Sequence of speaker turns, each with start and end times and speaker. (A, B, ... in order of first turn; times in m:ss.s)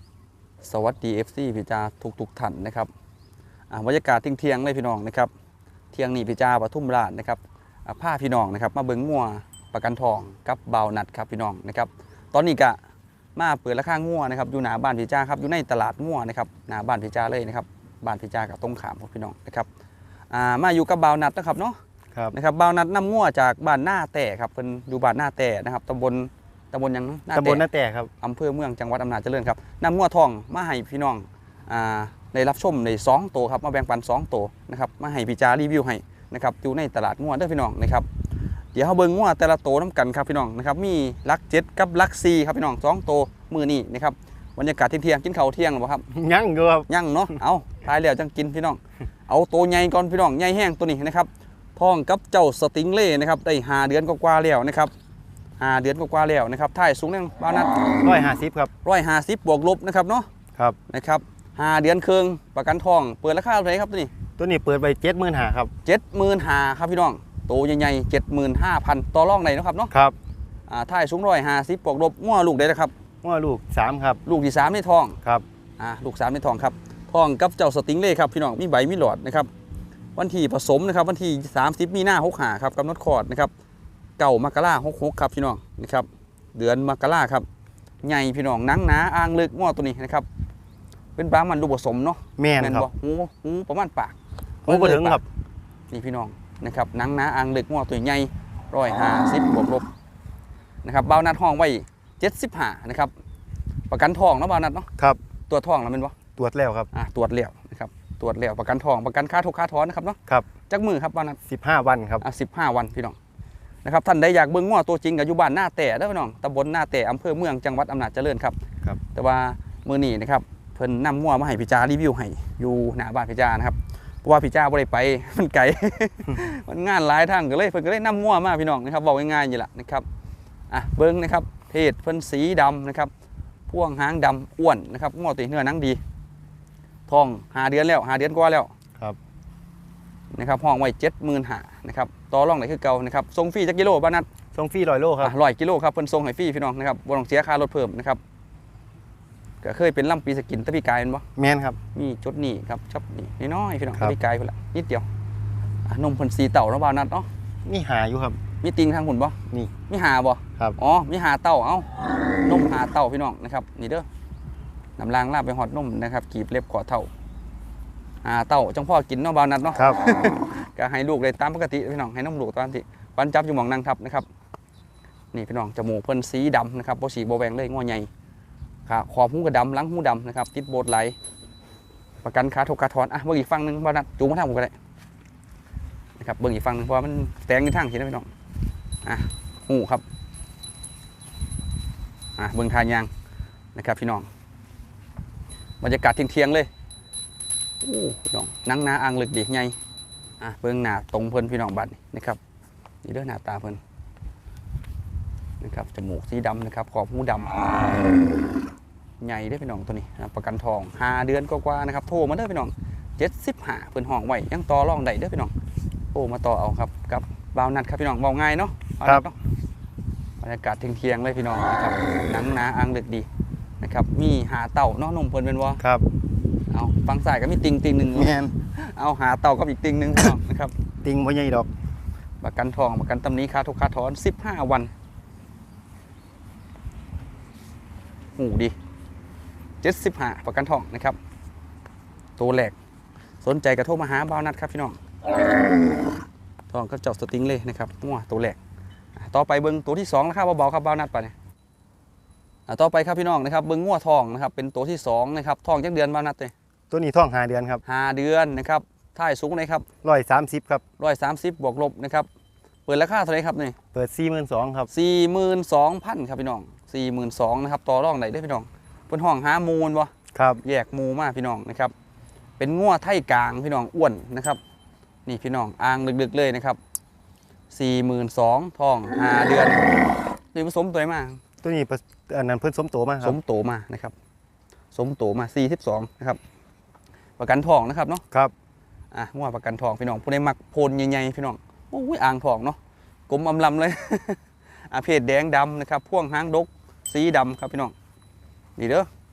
0:00.6-0:02.9 A
0:03.7-0:05.3 A
0:05.9-0:12.8 A
0:13.4-0:19.7 A
0:20.3-0:21.8 A
0:22.3-0:27.6 A
0:27.3-0:28.1 B
0:28.2-0:38.1 A
0:38.7-0:46.1 A
0:46.1-0:46.9 B
0:46.9-0:54.9 A
0:55.6-0:58.0 A
0:58.0-0:58.7 B
0:58.8-1:00.3 A
1:00.9-1:04.1 A
1:04.4-1:05.7 B
1:05.8-1:09.9 A
1:10.7-1:12.9 A
1:13.2-1:14.2 B
1:14.2-1:15.2 A
1:15.8-1:19.5 A
1:20.2-1:23.5 A
1:24.2-1:27.5 A
1:28.0-1:30.3 A
1:31.2-1:35.2 A
1:32.4-1:32.9 B
1:34.7-1:35.2 B
1:35.9-1:39.9 A
1:40.8-1:43.1 A
1:43.9-1:44.9 A
1:45.5-1:46.1 A
1:46.4-1:46.9 B
1:46.9-1:50.2 A
1:50.7-1:51.4 A
1:51.5-1:52.2 B
1:52.2-1:53.2 A
1:53.8-1:58.6 A
1:59.1-2:10.0 A
2:10.7-2:13.1 A
2:13.7-2:16.0 A
2:17.1-2:18.7 A
2:20.3-2:24.3 A
2:24.6-2:25.3 B
2:25.2-2:28.2 A
2:29.6-2:31.2 A
2:31.4-2:31.8 B
2:31.9-2:35.1 A
2:35.9-2:37.3 A
2:37.6-2:38.4 B
2:38.6-2:39.4 A
2:39.9-2:41.9 A
2:42.4-2:44.1 A
2:45.0-2:47.1 A
2:48.2-2:54.3 A
2:55.3-2:58.1 A
2:58.9-3:01.2 A
3:02.2-3:04.7 A
3:06.2-3:08.3 A
3:09.0-3:10.0 A
3:12.4-3:13.1 A
3:13.8-3:14.3 A
3:15.8-3:16.7 A
3:17.8-3:19.8 A
3:20.4-3:22.4 A
3:23.0-3:23.8 A
3:25.6-3:27.8 A
3:29.2-3:35.5 A
3:36.1-3:39.4 A
3:40.4-3:43.3 A
3:43.8-3:45.8 A
3:45.8-3:46.1 B
3:46.7-3:50.7 A
3:48.2-3:48.5 B
3:51.0-3:51.7 B
3:52.4-3:54.9 A
3:58.4-3:58.8 A
3:59.8-4:01.2 A
4:02.4-4:02.8 A
4:03.4-4:05.0 A
4:06.7-4:08.6 A
4:09.2-4:11.3 A
4:12.7-4:16.5 A
4:16.9-4:17.8 B
4:17.9-4:19.8 A
4:20.0-4:20.8 B
4:21.0-4:22.3 A
4:22.9-4:23.8 A
4:23.9-4:24.9 B
4:24.9-4:30.1 A
4:30.3-4:30.6 B
4:30.6-4:31.9 A
4:32.6-4:34.6 A
4:35.3-4:36.8 A
4:37.7-4:39.9 A
4:40.5-4:41.4 A
4:41.6-4:43.4 B
4:43.2-4:44.1 A
4:44.9-4:46.4 A
4:47.4-4:48.2 A
4:49.1-4:57.9 A
4:58.8-4:59.1 A